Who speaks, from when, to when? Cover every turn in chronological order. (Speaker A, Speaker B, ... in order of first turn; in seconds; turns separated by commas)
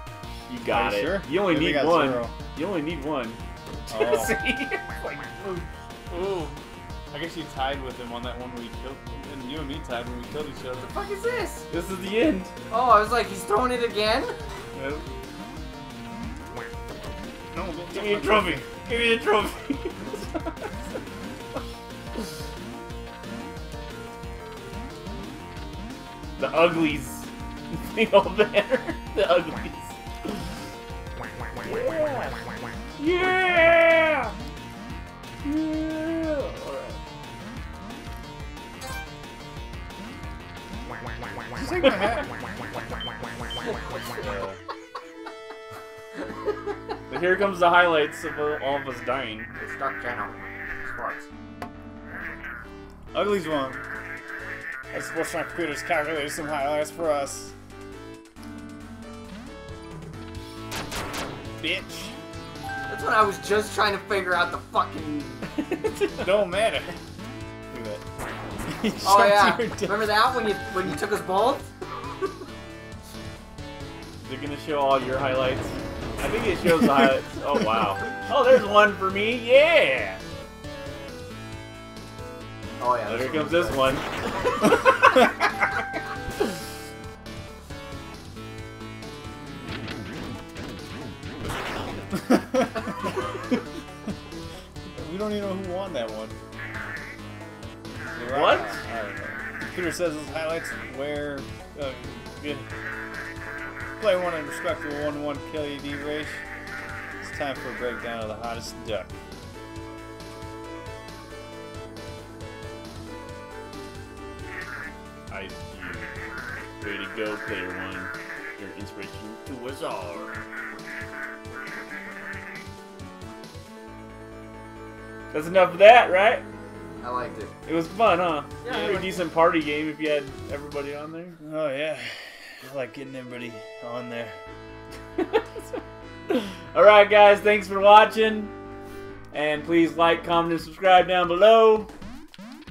Speaker A: 0.5-5.6, Speaker B: 0.7-2.3, Speaker B: 3.9-4.3, Speaker B: 7.1-10.9, Speaker C: 10.8-11.7, Speaker A: 11.7-12.5, Speaker C: 12.7-14.3, Speaker A: 14.7-15.0, Speaker B: 17.5-18.6, Speaker A: 17.9-20.7, Speaker A: 26.4-30.4, Speaker A: 31.6-32.4, Speaker A: 33.0-34.3, Speaker A: 35.4-37.0, Speaker B: 41.5-42.3, Speaker A: 41.9-42.2, Speaker B: 44.1-44.6, Speaker A: 47.1-49.5, Speaker C: 49.6-51.3, Speaker B: 53.1-53.8, Speaker B: 54.9-57.5, Speaker B: 61.6-62.1, Speaker C: 62.9-65.5, Speaker A: 65.5-66.5, Speaker B: 66.2-66.9, Speaker B: 67.7-68.0, Speaker B: 68.7-70.2, Speaker C: 69.0-71.7, Speaker A: 74.2-80.2, Speaker B: 76.6-78.3, Speaker C: 82.8-84.0, Speaker A: 83.1-84.0, Speaker B: 92.1-92.8, Speaker B: 94.9-96.4, Speaker B: 98.1-102.7, Speaker A: 98.2-98.8, Speaker B: 104.0-106.4, Speaker B: 107.2-109.1, Speaker A: 115.3-116.1, Speaker A: 116.8-120.4, Speaker A: 125.3-126.4, Speaker C: 127.0-127.5, Speaker A: 127.7-131.4, Speaker C: 128.6-129.2, Speaker B: 131.4-134.4, Speaker A: 135.2-135.4, Speaker A: 136.3-138.5, Speaker A: 139.3-141.9